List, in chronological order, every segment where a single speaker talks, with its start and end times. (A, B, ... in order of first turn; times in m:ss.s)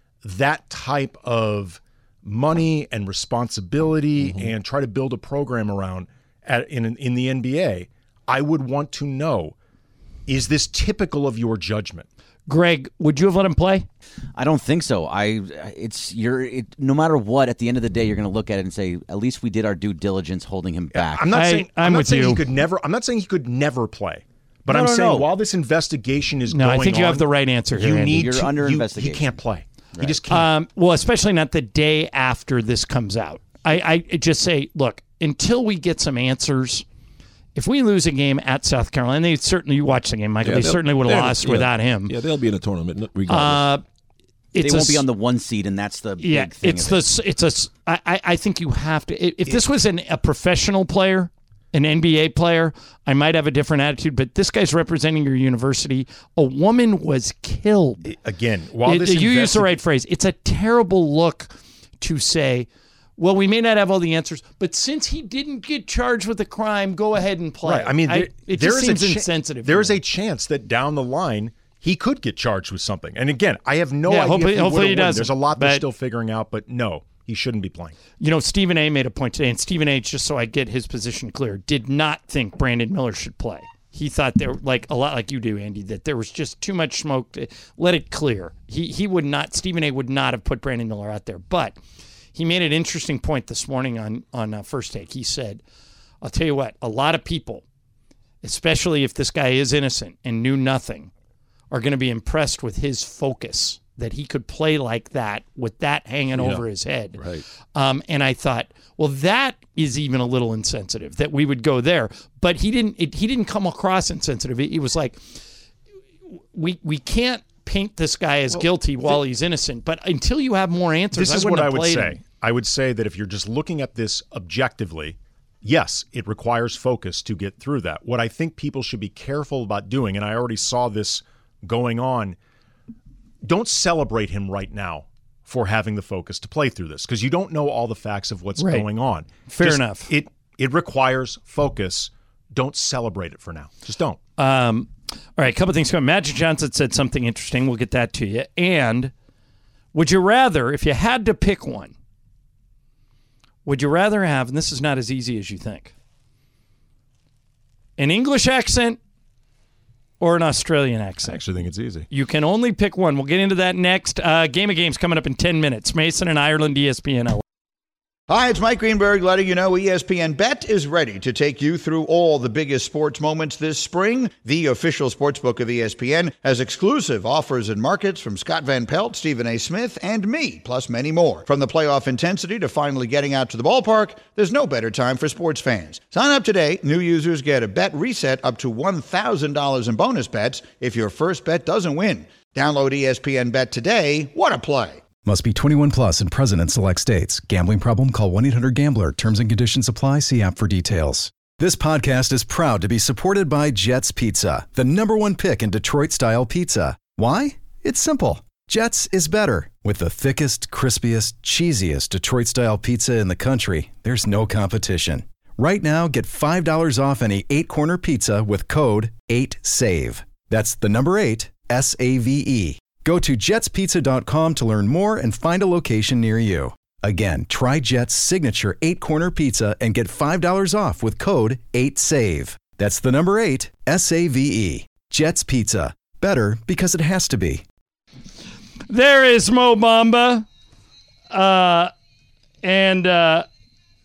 0:00.2-0:09.6 A
0:04.2-0:04.5 B
0:10.3-0:12.1 A
0:12.5-0:13.9 C
0:14.4-0:21.3 D
0:20.9-0:30.5 A
0:21.3-0:22.4 C
0:24.7-0:25.3 D
0:26.5-0:28.3 C
0:28.2-0:29.3 D
0:30.0-0:30.2 D
0:30.3-0:36.8 C
0:37.6-0:42.1 C
0:40.4-0:43.7 B
0:43.3-0:43.8 C
0:44.6-0:45.0 C
0:44.6-0:47.1 D
0:46.2-0:58.1 C
0:58.0-0:59.8 A
0:58.8-1:10.0 C
1:07.6-1:18.0 A
1:14.1-1:15.8 C
1:18.2-1:31.8 C
1:32.3-1:35.6 C
1:36.2-1:37.6 C
1:38.4-1:41.1 C
1:41.7-1:47.2 C
1:46.4-1:46.6 B
1:47.2-1:47.4 B
1:47.8-1:55.2 C
1:56.5-2:02.2 C
1:58.6-1:59.2 A
2:01.1-2:12.4 A
2:13.4-2:24.2 A
2:18.6-2:18.9 C
2:19.5-2:20.1 C
2:24.4-2:29.1 C
2:29.9-2:31.9 C
2:33.6-2:35.9 C
2:38.0-2:39.0 C
2:40.2-2:41.4 C
2:41.2-2:42.1 A
2:42.1-2:47.4 C
2:48.3-3:15.0 E
3:15.2-3:57.6 F
3:58.9-4:00.4 C
4:01.3-4:01.9 C
4:02.6-4:03.5 C